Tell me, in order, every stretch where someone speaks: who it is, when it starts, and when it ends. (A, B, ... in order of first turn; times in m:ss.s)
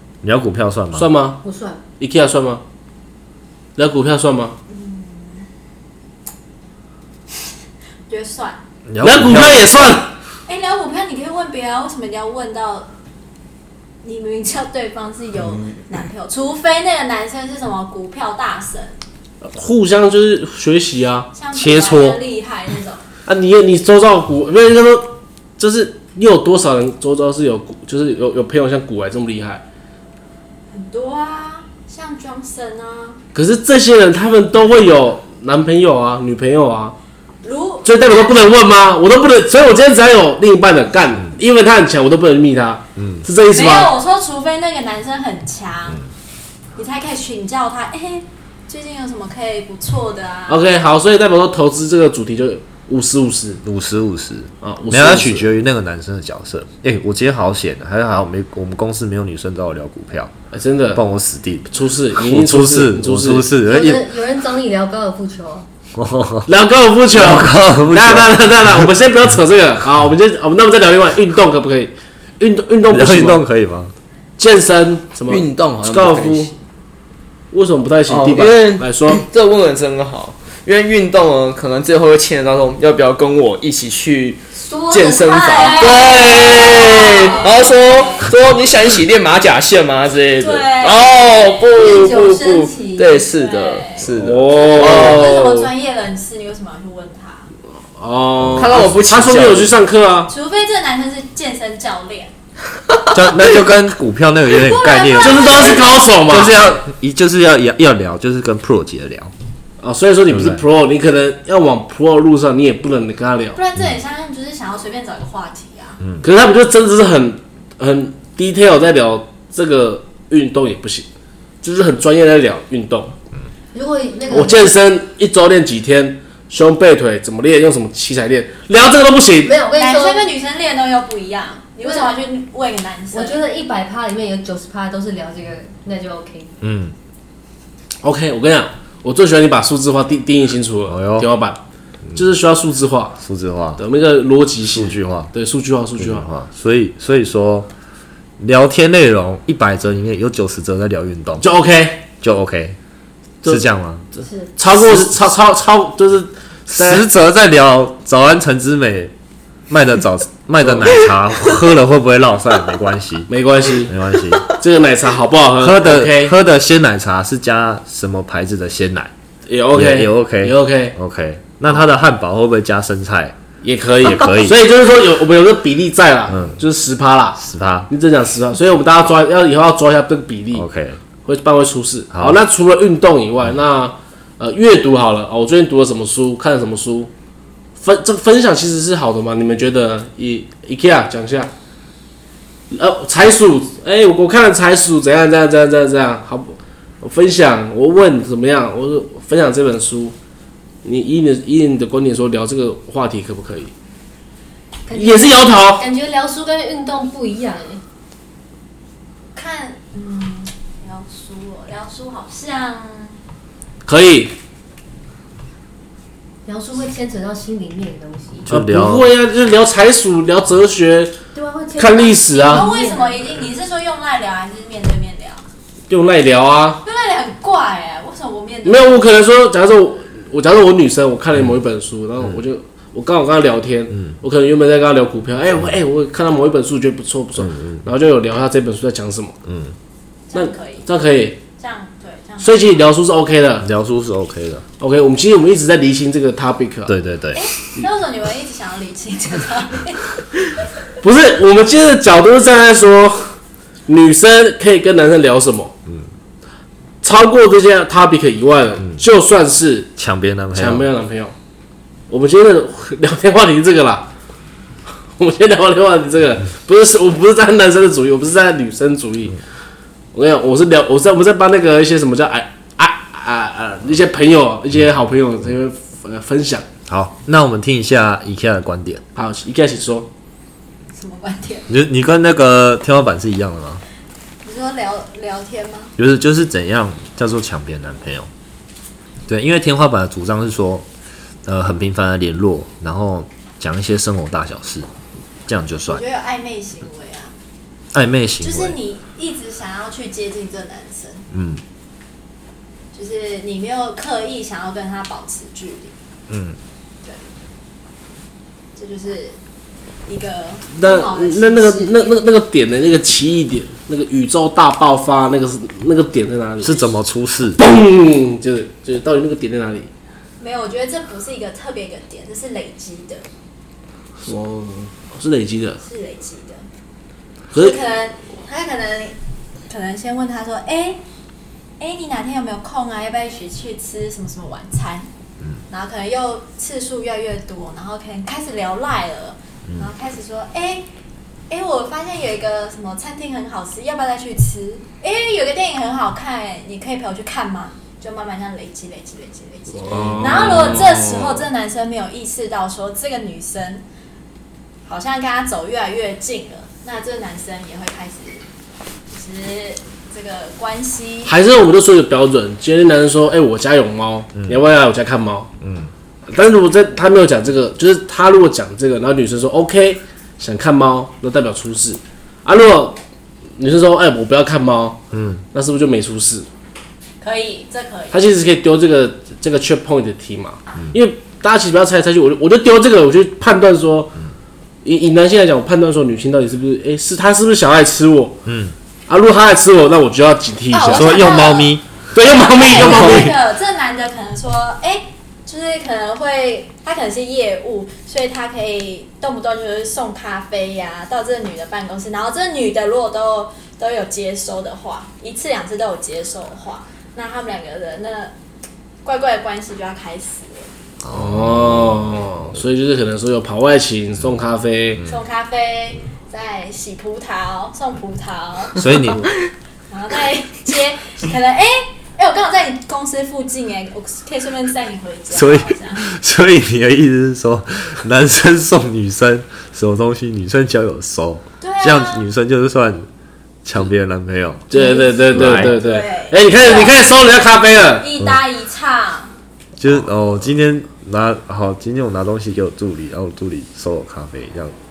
0:00.2-0:01.1 A
0:00.9-0:01.4 B
0:01.4-0:01.8 C
0:02.0-0:02.6 B
0:03.8-0:04.6 B
0:04.7-0:05.5 D
0:08.1-0:08.6 D
0:08.9-0:10.0 A
0:09.0-0:10.1 B
0:10.4-0:12.9 D
0:14.0-0:19.0 D
0:19.4-0:21.3 B
0:21.3-0:23.0 D
0:21.5-0:22.2 A
0:23.2-0:29.6 B
0:30.7-0:33.2 D
0:33.3-0:36.9 B
0:37.4-0:38.5 D
0:37.8-0:43.9 B
0:43.0-0:43.2 A
0:43.5-0:46.0 D
0:46.8-0:50.6 D
0:50.5-0:53.6 B
0:53.6-1:00.3 A
0:54.6-0:55.5 B
1:00.5-1:01.0 B
1:00.9-1:04.1 A
1:01.7-1:03.5 B
1:03.6-1:05.7 C
1:05.9-1:06.5 A
1:06.4-1:13.4 B
1:07.1-1:08.9 A
1:12.9-1:13.9 A
1:14.4-1:16.5 B
1:15.3-1:16.6 E
1:17.5-1:19.2 B
1:18.1-1:35.7 E
1:24.5-1:27.5 C
1:25.2-1:28.3 D
1:30.4-1:31.8 D
1:31.7-1:33.2 C
1:33.2-1:34.1 D
1:34.1-1:35.3 B
1:34.7-1:37.5 D
1:38.0-1:40.3 B
1:38.4-1:38.9 A
1:38.6-1:39.8 E
1:40.3-1:42.3 D
1:43.1-1:49.3 A
1:44.5-1:46.1 D
1:45.2-1:46.6 B
1:49.8-1:53.6 B
1:50.3-1:50.6 A
1:53.6-1:56.0 D
1:56.2-2:01.1 B
2:01.6-2:03.1 B
2:03.7-2:04.7 C
2:04.3-2:09.5 B
2:09.4-2:10.3 C
2:09.7-2:13.4 D
2:11.8-2:12.1 C
2:13.1-2:16.5 C
2:16.6-2:16.9 A
2:18.0-2:21.6 B
2:20.9-2:21.3 A
2:22.1-2:23.2 B
2:23.2-2:23.8 A
2:23.8-2:26.3 B
2:24.7-2:25.3 A
2:26.0-2:27.7 A
2:28.4-2:31.4 A
2:31.4-2:32.0 B
2:32.2-2:32.8 A
2:33.4-2:34.0 A
2:34.2-2:37.0 B
2:36.7-2:39.1 A
2:39.7-2:43.3 A
2:40.6-2:40.9 B
2:43.3-2:43.9 B
2:43.8-2:44.5 A
2:44.5-2:46.3 B
2:45.6-2:49.1 A
2:49.5-2:51.0 B
2:49.7-2:53.4 A
2:53.6-3:00.6 B
2:54.0-2:54.6 A
2:56.3-2:56.6 A
2:57.4-2:57.9 A
3:00.5-3:01.0 A
3:01.2-3:07.1 B
3:02.1-3:02.4 A
3:07.8-3:11.5 B
3:12.7-3:20.1 B
3:20.8-3:23.7 B
3:24.8-3:27.8 C
3:24.9-3:25.8 B
3:29.3-3:33.2 D
3:33.8-3:34.3 B
3:36.4-3:38.5 C
3:38.4-3:39.1 A
3:38.5-3:41.2 B
3:41.3-3:43.5 C
3:41.8-3:42.7 B
3:42.4-3:45.4 D
3:45.9-3:46.8 B
3:46.8-3:49.0 D
3:48.6-3:59.4 B
3:57.4-3:57.8 A
3:59.4-3:59.7 A
4:00.3-4:00.9 D
4:00.3-4:01.4 B
4:01.6-4:02.8 D
4:02.4-4:03.7 B
4:03.6-4:04.6 A
4:04.8-4:06.9 B
4:06.9-4:07.5 A
4:07.3-4:10.1 D
4:11.0-4:13.3 B
4:13.9-4:15.7 B
4:17.0-4:19.9 B
4:20.0-4:20.9 A
4:20.5-4:21.3 B
4:22.1-4:24.1 B
4:25.2-4:29.4 B
4:30.1-4:36.6 B
4:36.9-4:39.0 A
4:39.2-4:40.1 B
4:40.9-4:41.7 D
4:41.7-4:43.8 A
4:44.4-4:45.9 D
4:46.0-4:48.3 A
4:49.3-4:50.8 A
4:51.4-4:54.9 A
4:55.5-4:56.0 A
4:55.9-4:57.3 D
4:57.9-4:58.8 A
4:58.4-5:01.3 D
5:01.3-5:01.6 A
5:02.9-5:05.9 D
5:06.3-5:06.6 A
5:08.7-5:09.4 D
5:10.0-5:12.1 D
5:10.7-5:16.8 B
5:16.6-5:17.6 A
5:17.6-5:19.9 B
5:20.4-5:23.2 D
5:24.2-5:25.8 B
5:25.8-5:26.6 D
5:27.5-5:27.8 B
5:27.5-5:29.2 D
5:29.7-5:31.0 D
5:31.8-5:35.1 D
5:35.7-5:40.9 D
5:41.5-5:53.8 D
5:49.8-5:51.4 B
5:50.0-5:50.8 A
5:54.8-5:58.4 D
5:59.1-6:01.3 D
6:01.2-6:05.5 B
6:04.3-6:04.6 A
6:05.6-6:05.9 A
6:06.3-6:13.0 B
6:13.6-6:16.5 B
6:15.1-6:15.4 A
6:17.2-6:18.2 D
6:18.1-6:24.2 B
6:24.8-6:28.4 B
6:28.4-6:28.7 A
6:29.1-6:31.2 B
6:30.7-6:48.3 D
6:30.9-6:31.8 A
6:32.1-6:33.3 B
6:32.7-6:33.3 A
6:49.0-6:50.7 D
6:51.0-6:52.1 A
6:51.1-6:55.0 B
6:54.9-6:55.2 A
6:55.0-6:58.9 D
6:58.8-6:59.3 A
6:59.9-7:06.1 D
7:05.3-7:13.1 A
7:11.6-7:12.2 D
7:13.6-7:14.7 A
7:14.7-7:18.1 B
7:14.7-7:17.2 D
7:15.3-7:15.7 A
7:18.0-7:19.3 D
7:19.8-7:24.7 A